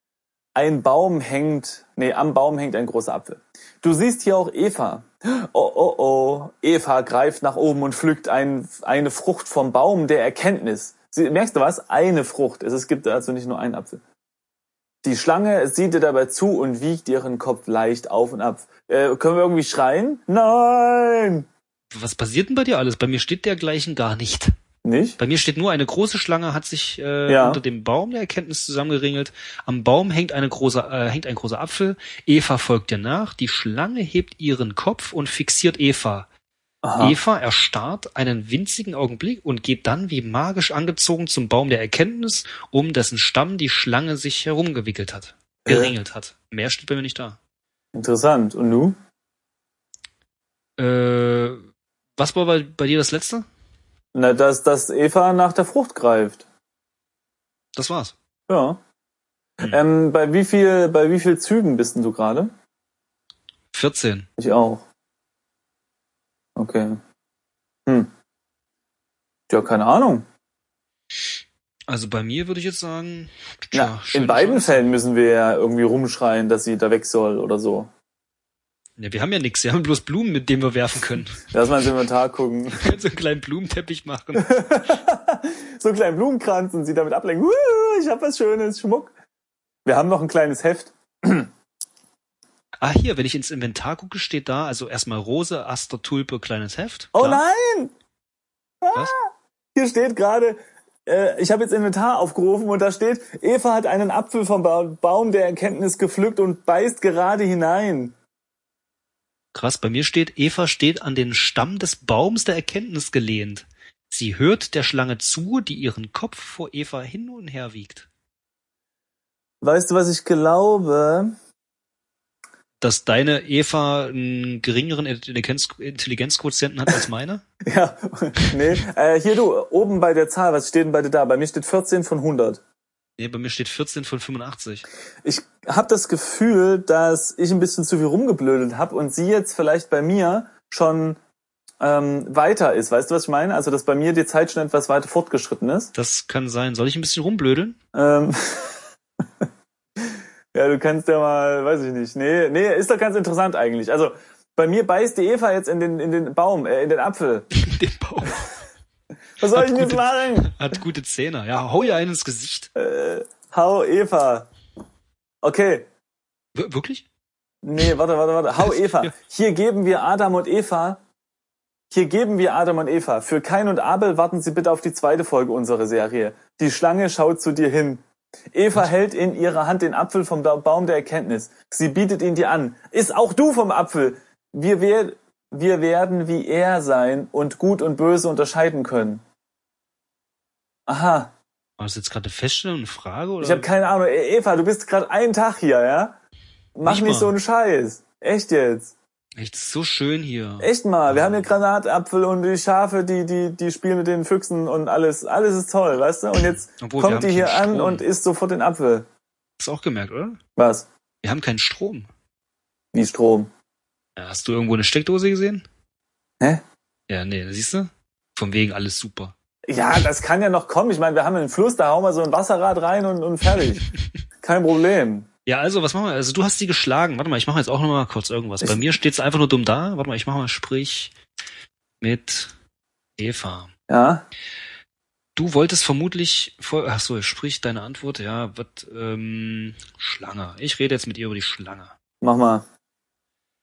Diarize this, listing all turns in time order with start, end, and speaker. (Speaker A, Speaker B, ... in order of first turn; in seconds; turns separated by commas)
Speaker A: 0.5-14.0, Speaker A: 15.0-21.4, Speaker B: 21.9-24.5, Speaker A: 24.8-25.2, Speaker B: 25.2-36.3, Speaker A: 27.3-27.6, Speaker A: 36.8-37.2, Speaker B: 37.0-47.4, Speaker A: 45.6-45.9, Speaker A: 47.9-49.0, Speaker B: 50.8-51.6, Speaker B: 52.2-53.5, Speaker A: 54.1-56.5, Speaker B: 57.7-58.1, Speaker A: 58.5-58.8, Speaker A: 59.6-62.5, Speaker B: 63.7-64.3, Speaker A: 64.4-64.8, Speaker A: 66.5-67.0, Speaker A: 69.5-70.2, Speaker B: 71.9-74.8, Speaker A: 73.7-77.9, Speaker B: 79.0-81.5, Speaker A: 81.5-83.0, Speaker B: 82.7-84.8, Speaker A: 84.3-89.1, Speaker A: 89.8-91.5, Speaker B: 92.8-97.4, Speaker A: 97.1-97.9, Speaker A: 98.8-108.1, Speaker B: 109.5-118.1, Speaker A: 119.6-121.3, Speaker B: 122.8-127.4, Speaker A: 127.6-132.6, Speaker B: 133.2-134.8, Speaker A: 135.2-141.2, Speaker A: 141.8-145.9, Speaker B: 145.9-147.8, Speaker A: 147.9-148.8, Speaker A: 150.5-157.5, Speaker B: 157.5-158.6, Speaker A: 159.4-160.8, Speaker B: 159.5-162.7, Speaker A: 162.7-164.5, Speaker A: 165.4-165.9, Speaker B: 166.5-167.1, Speaker A: 167.6-171.0, Speaker B: 168.6-169.1, Speaker A: 171.9-178.0, Speaker A: 178.5-189.2, Speaker A: 190.9-191.3, Speaker B: 191.8-193.7, Speaker A: 193.4-196.2, Speaker A: 196.8-198.9, Speaker B: 196.8-197.3, Speaker B: 199.3-201.5, Speaker A: 200.6-209.1, Speaker B: 206.7-208.0, Speaker B: 209.6-210.4, Speaker A: 210.6-210.9, Speaker B: 211.2-212.1, Speaker A: 212.9-213.5, Speaker B: 214.2-215.6, Speaker B: 217.1-219.3, Speaker A: 219.7-223.9, Speaker A: 224.4-225.3, Speaker B: 225.4-231.1, Speaker A: 228.6-228.9, Speaker B: 232.0-232.5, Speaker B: 233.2-233.7, Speaker A: 233.9-234.2, Speaker B: 235.3-241.9, Speaker A: 242.2-242.6